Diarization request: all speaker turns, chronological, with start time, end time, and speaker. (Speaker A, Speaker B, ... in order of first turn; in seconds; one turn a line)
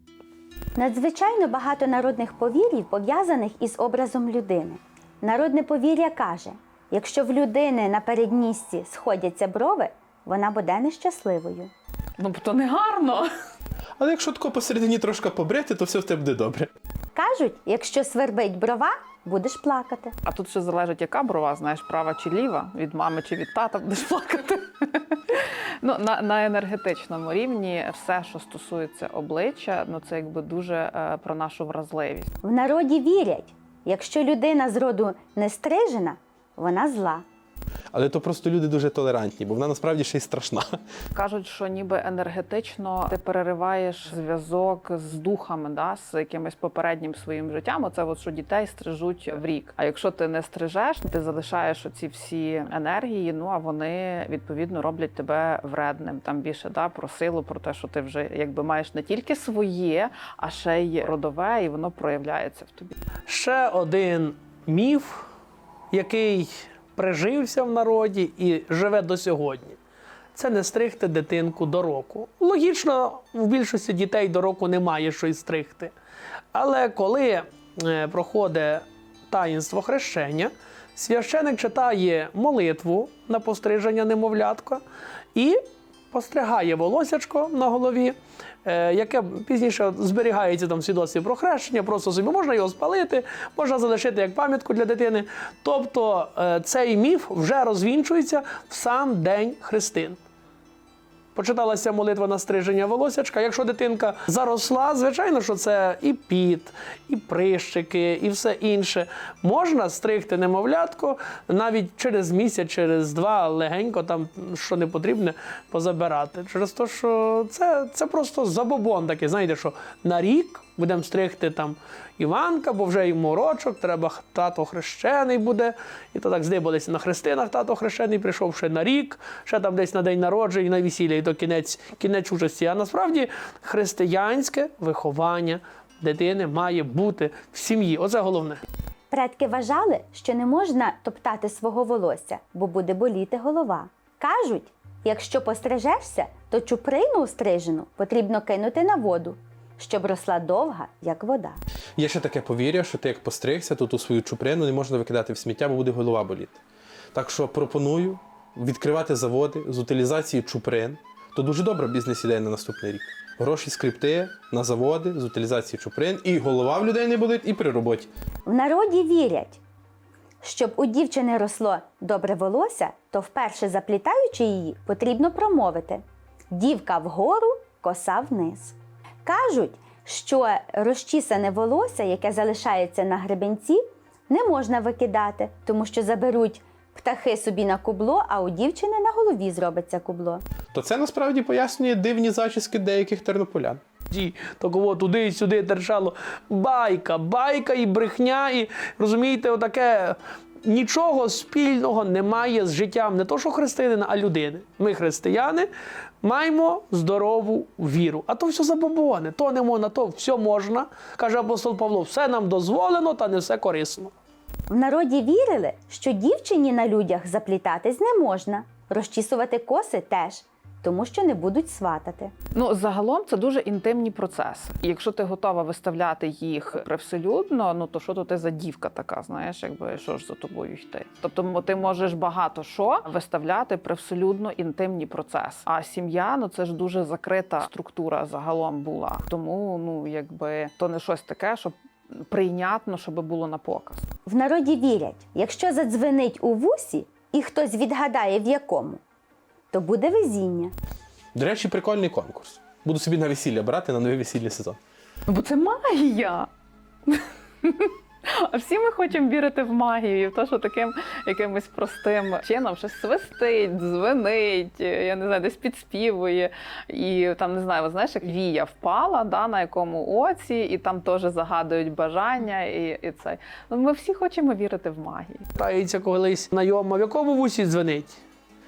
Speaker A: 0.8-11.7
Speaker B: 12.2-13.3
Speaker C: 14.0-16.7
Speaker A: 17.1-20.1
Speaker B: 20.3-32.3
Speaker A: 32.4-37.2
Speaker C: 37.9-40.7
Speaker B: 41.1-63.0
Speaker D: 63.3-65.2
Speaker D: 65.9-69.8
Speaker D: 70.3-75.9
Speaker D: 76.5-84.8
Speaker D: 85.3-85.6
Speaker D: 86.1-100.2
Speaker D: 101.3-138.6
Speaker A: 139.1-151.6
Speaker C: 152.0-156.6
Speaker C: 157.1-168.1
Speaker A: 168.5-169.6
Speaker A: 170.4-190.4
Speaker C: 190.7-193.8
Speaker D: 194.1-205.7
Speaker D: 206.2-214.1
Speaker A: 214.7-222.3
Speaker B: 222.5-241.7
Speaker B: 242.3-244.1
Speaker A: 244.3-249.0
Speaker A: 249.7-250.7
Speaker C: 251.3-254.8
Speaker B: 255.3-256.5
Speaker B: 257.1-275.4
Speaker D: 275.6-278.2